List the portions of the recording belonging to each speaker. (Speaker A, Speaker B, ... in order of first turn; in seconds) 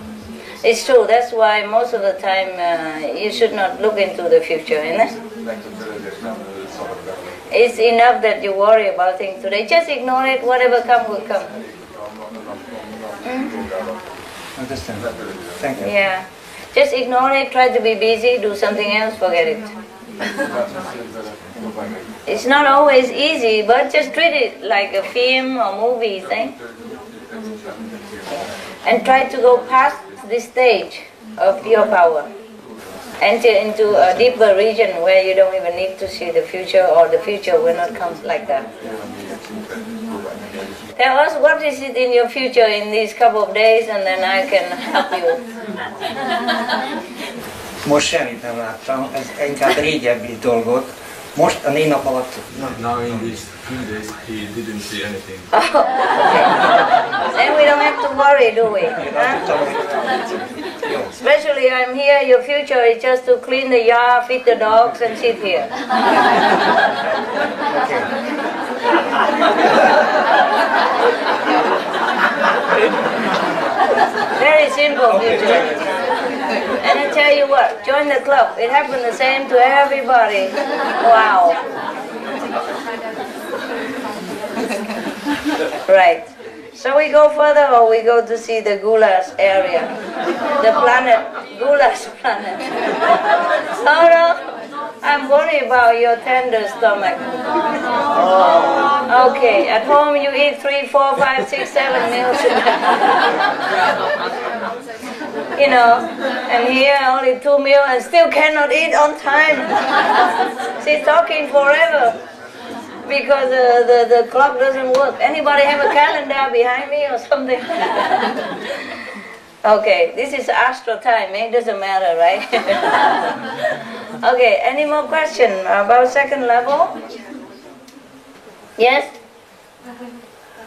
Speaker A: 0.6-5.1, 7.5-11.5, 15.8-19.7, 22.3-26.6, 28.9-32.3, 33.2-38.6, 41.0-45.4, 55.5-56.5, 57.4-59.5, 61.2-65.7, 74.3-75.8, 76.8-81.6, 85.9-86.2, 86.8-89.9, 90.6-92.7, 93.8-94.4, 95.0-97.2, 98.1-103.0, 105.6-109.7, 110.8-112.2, 113.0-118.3, 119.6-122.9, 124.2-126.9, 128.8-129.1
Speaker B: 5.4-7.3, 15.0-15.6, 20.4-22.0, 26.3-27.7, 52.7-55.5
Speaker C: 14.6-15.1, 15.6-15.9, 47.8-52.8, 59.0-59.8, 67.7-68.0, 75.1-75.8